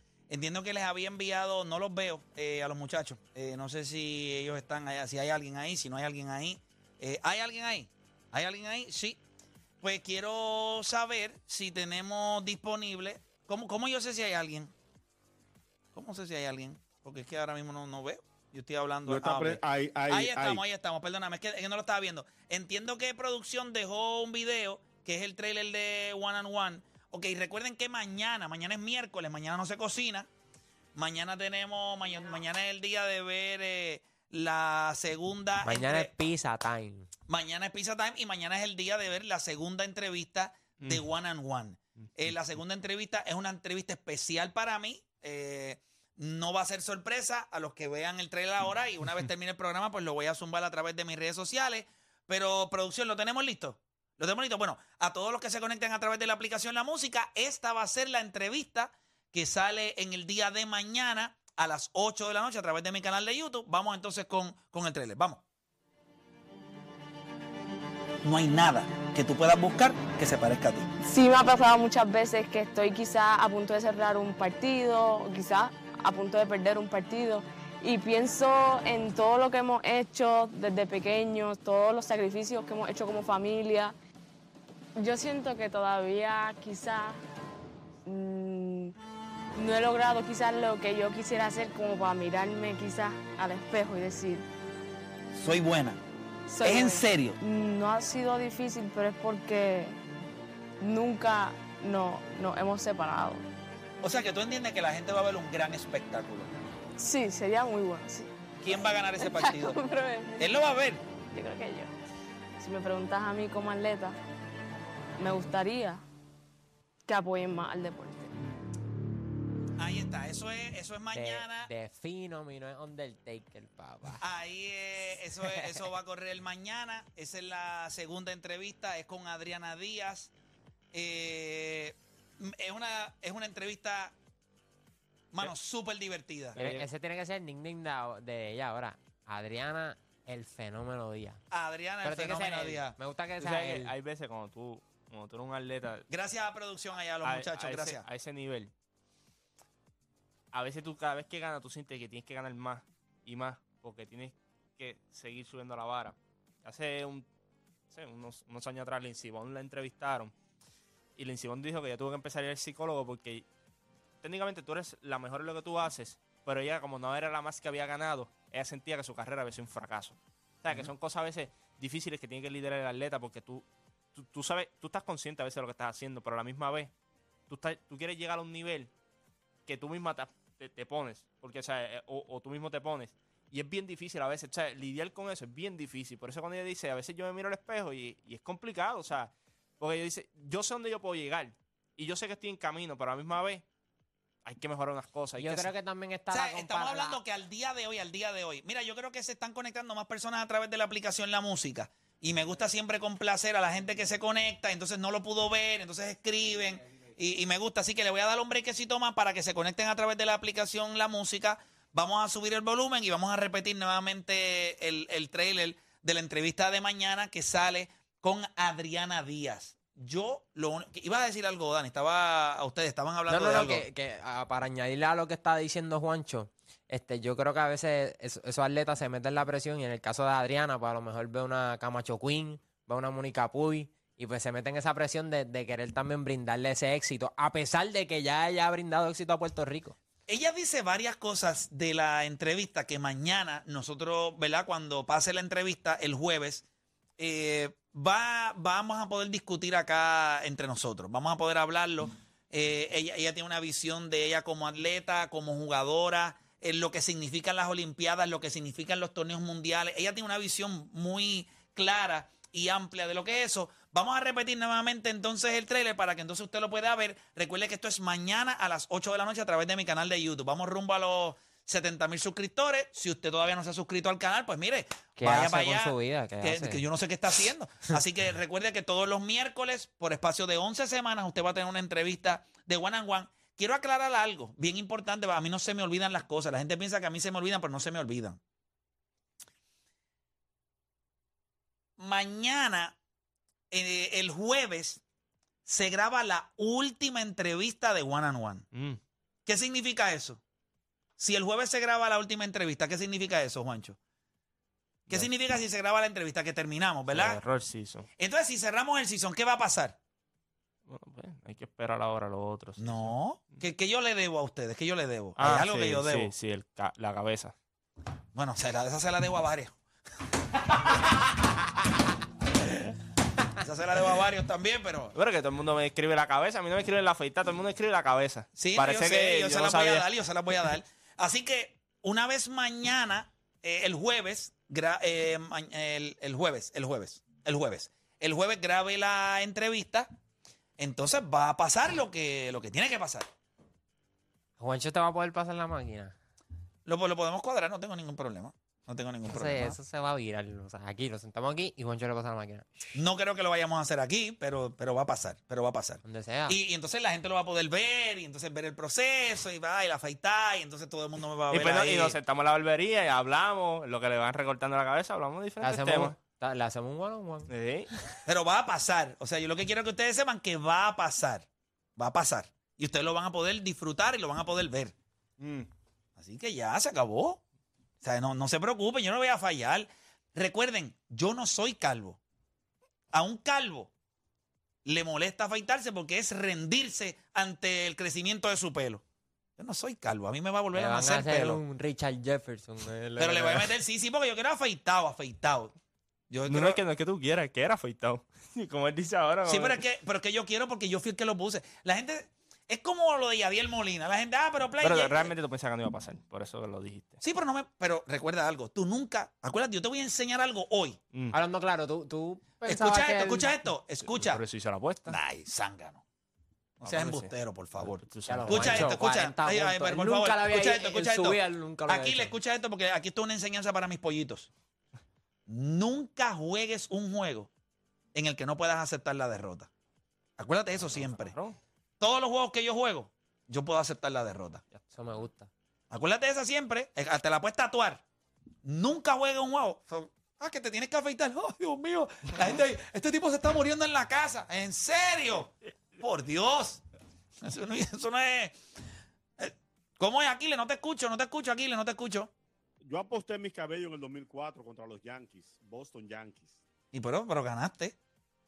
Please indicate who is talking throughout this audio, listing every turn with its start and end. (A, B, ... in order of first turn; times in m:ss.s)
0:00.3-0:09.2 A
0:09.8-0:14.7 A
0:15.9-0:30.3 A
0:19.1-0:20.6 B
0:31.0-0:36.1 A
0:35.6-0:37.1 C
0:37.3-1:05.4 A
0:40.8-0:41.0 D
1:08.2-1:10.9 A
1:11.0-1:24.0 E
1:25.0-1:27.2 E
1:28.0-1:29.0 E
1:29.6-1:34.4 E
1:35.3-1:36.0 A
1:36.5-1:40.0 E
1:36.6-1:37.4 A
1:40.8-1:43.4 E
1:44.0-1:46.5 A
1:47.0-1:48.3 E
1:48.6-1:49.8 A
1:49.2-1:50.5 E
1:50.4-1:51.0 A
1:51.3-1:51.9 E
1:52.6-1:54.2 E
1:55.2-1:56.0 E
1:57.1-1:58.3 E
1:59.8-2:01.7 A
2:01.1-2:04.2 C
2:04.2-2:10.3 A
2:05.4-2:05.8 C
2:10.9-2:14.2 A
2:15.3-2:16.6 A
2:16.6-2:16.9 D
2:16.6-2:21.4 C
2:21.5-2:23.0 A
2:22.0-2:23.9 C
2:23.4-2:26.0 D
2:26.1-2:28.0 A
2:27.2-2:28.7 D
2:30.5-2:37.3 D
2:37.9-2:40.3 D
2:41.2-2:43.5 D
2:44.2-2:56.9 D
2:57.5-2:58.9 D
2:59.7-3:13.6 D
3:14.4-3:15.7 D
3:15.4-3:17.2 C
3:16.3-3:43.8 A
3:43.3-4:00.0 C
4:00.3-4:06.6 A
4:07.2-4:48.4 A
4:35.2-4:36.8 C
4:52.0-4:53.0 A
4:53.7-4:55.0 A
4:55.6-4:58.6 A
4:58.7-4:59.0 D
4:59.5-5:00.4 A
5:01.2-5:04.0 A
5:05.1-5:07.4 A
5:07.1-5:08.1 D
5:08.2-5:10.0 A
5:10.9-5:13.6 D
5:12.8-5:16.3 A
5:15.4-5:17.6 D
5:18.4-5:19.8 A
5:20.6-5:21.5 A
5:23.5-5:25.1 A
5:25.1-5:30.1 D
5:28.6-5:40.1 A
5:40.8-5:43.3 A
5:44.6-5:46.1 C
5:46.9-5:49.8 A
5:49.3-5:52.7 C
5:53.0-6:02.2 A
5:56.0-5:56.6 C
6:01.5-6:06.2 D
6:05.6-6:07.5 C
6:07.5-6:07.9 D
6:08.3-6:11.5 A
6:12.0-6:15.0 A
6:15.4-6:15.7 D
6:16.2-6:17.4 A
6:18.0-6:22.2 A
6:23.1-6:23.9 A
6:24.8-6:29.0 A
6:29.6-6:31.6 A
6:30.7-6:33.7 C
6:33.2-6:35.7 A
6:36.3-6:36.8 A
6:36.5-6:39.8 D
6:39.5-6:45.3 A
6:44.8-6:47.2 D
6:47.2-6:51.0 A
6:51.3-6:53.6 C
6:52.6-6:54.4 A
6:54.0-6:55.2 D
6:55.1-6:56.0 A
6:56.8-7:04.5 A
6:56.8-6:59.0 D
6:58.3-7:02.4 C
7:05.5-7:07.5 A
7:08.1-7:09.7 A
7:10.4-7:11.4 A
7:10.8-7:11.6 D
7:12.0-7:14.6 A
7:14.9-7:15.5 C
7:15.9-7:18.0 A
7:18.6-7:26.8 A
7:27.4-7:28.6 A
7:29.4-7:32.3 A
7:32.8-7:36.6 B
7:36.9-7:38.0 A